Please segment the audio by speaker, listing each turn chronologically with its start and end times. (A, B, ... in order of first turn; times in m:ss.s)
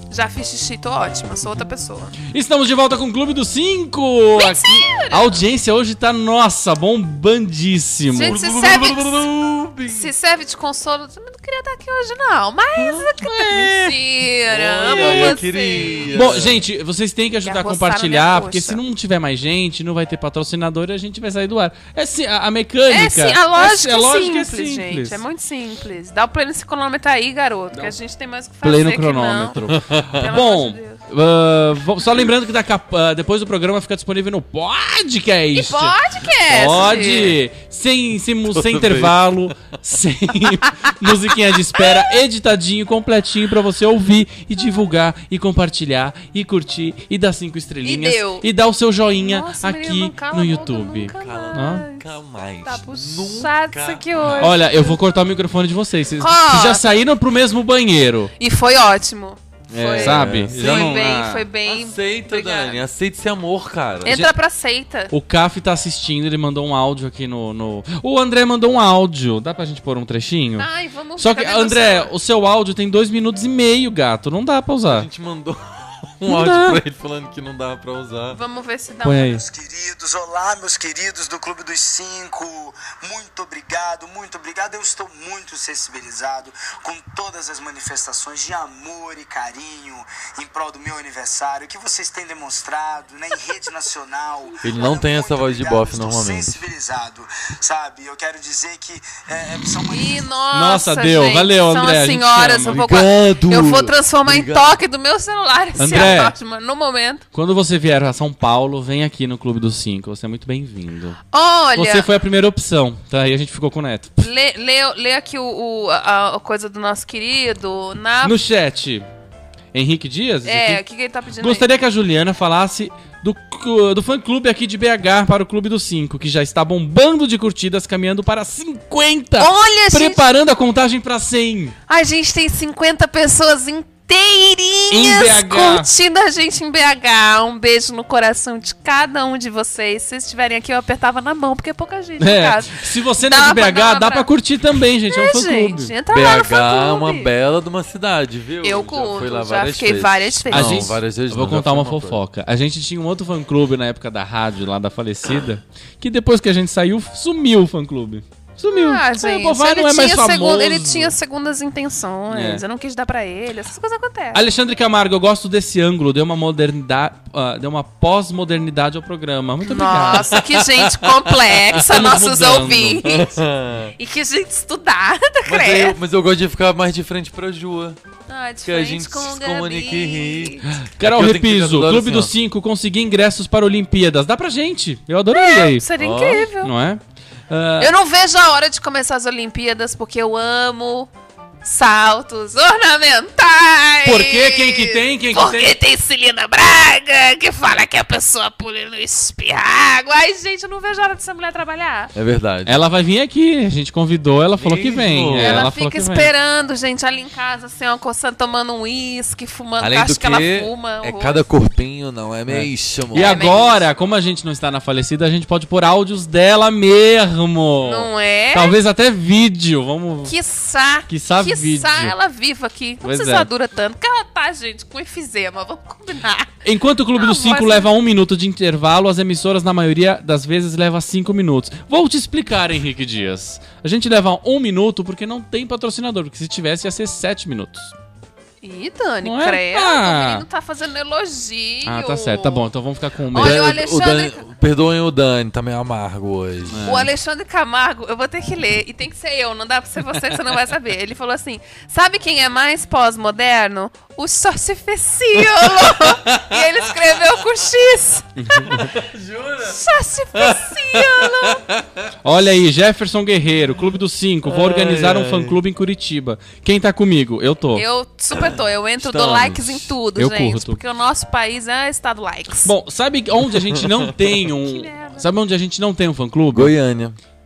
0:00.1-0:02.1 A
0:02.2-0:08.4 B
0:04.3-0:05.4 A
0:08.1-0:09.3 A
0:08.2-0:10.1 C
0:09.9-0:16.1 A
0:12.8-0:14.0 C
0:14.5-0:16.6 C
0:14.9-0:15.4 B
0:16.1-0:25.2 B
0:17.4-0:18.8 A
0:22.9-0:29.6 A
0:28.6-0:36.0 B
0:29.7-0:30.2 C
0:30.1-0:31.0 A
0:35.5-0:37.3 A
0:36.5-0:51.8 B
0:38.5-0:39.5 C
0:41.8-0:42.1 A
0:47.8-0:48.4 A
0:49.2-0:52.1 A
0:51.2-0:54.6 C
0:52.6-0:55.0 A
0:54.4-0:58.3 B
0:56.2-0:56.8 A
0:58.4-1:02.8 A
0:59.7-1:04.2 C
0:59.9-1:01.4 B
1:04.0-1:05.1 A
1:04.0-1:04.3 B
1:05.1-1:15.1 B
1:10.6-1:12.1 A
1:14.9-1:18.4 C
1:16.2-1:16.8 B
1:18.3-1:19.4 A
1:19.0-1:19.4 B
1:19.3-1:40.3 D
1:34.6-1:36.6 C
1:39.9-1:47.2 A
1:40.5-1:42.8 B
1:42.7-1:44.8 C
1:45.8-1:46.4 B
1:47.3-1:51.2 B
1:51.3-1:52.1 A
1:51.8-1:54.2 B
1:54.2-1:58.4 A
1:58.2-1:59.1 B
1:59.7-2:00.8 B
2:00.4-2:01.6 A
2:01.4-2:11.8 B
2:09.4-2:10.2 A
2:11.9-2:24.3 A
2:14.9-2:15.9 B
2:22.2-2:25.9 B
2:25.1-2:27.3 A
2:26.1-2:32.2 C
2:28.6-2:30.9 A
2:30.5-2:41.1 B
2:38.6-2:44.4 A
2:42.3-2:42.6 B
2:44.3-2:50.4 B
2:49.6-2:53.4 A
2:50.3-2:51.8 C
2:51.9-2:53.1 B
2:53.0-2:53.9 C
2:54.0-2:56.0 A
2:55.4-2:58.0 C
2:58.3-3:00.7 A
2:58.6-3:02.3 C
3:01.0-3:05.8 B
3:05.3-3:06.7 A
3:06.0-3:06.5 C
3:06.6-3:07.9 B
3:07.8-3:11.1 A
3:11.6-3:22.1 A
3:14.0-3:15.8 B
3:22.1-3:22.8 C
3:22.6-3:26.3 B
3:24.6-3:25.7 C
3:25.4-3:31.4 A
3:29.8-3:33.5 C
3:32.5-3:40.3 B
3:33.1-3:33.8 A
3:37.8-3:38.7 A
3:40.2-3:46.6 A
3:41.1-3:42.1 B
3:43.0-3:43.5 B
3:46.6-3:57.9 B
3:47.1-3:47.9 A
3:58.6-4:02.7 A
3:59.2-4:00.4 B
4:01.8-4:03.7 B
4:03.3-4:04.4 A
4:03.3-4:06.9 C
4:06.7-4:07.1 B
4:06.8-4:18.8 A
4:15.4-4:17.2 C
4:18.4-4:18.9 B
4:18.8-4:19.8 C
4:19.6-4:21.6 A
4:20.3-4:22.1 C
4:22.2-4:27.8 B
4:24.4-4:25.6 C
4:27.7-4:32.7 A
4:28.3-4:29.9 C
4:30.2-4:30.8 B
4:32.6-4:36.7 B
4:33.5-4:34.1 C
4:34.6-4:35.3 A
4:36.5-4:37.2 C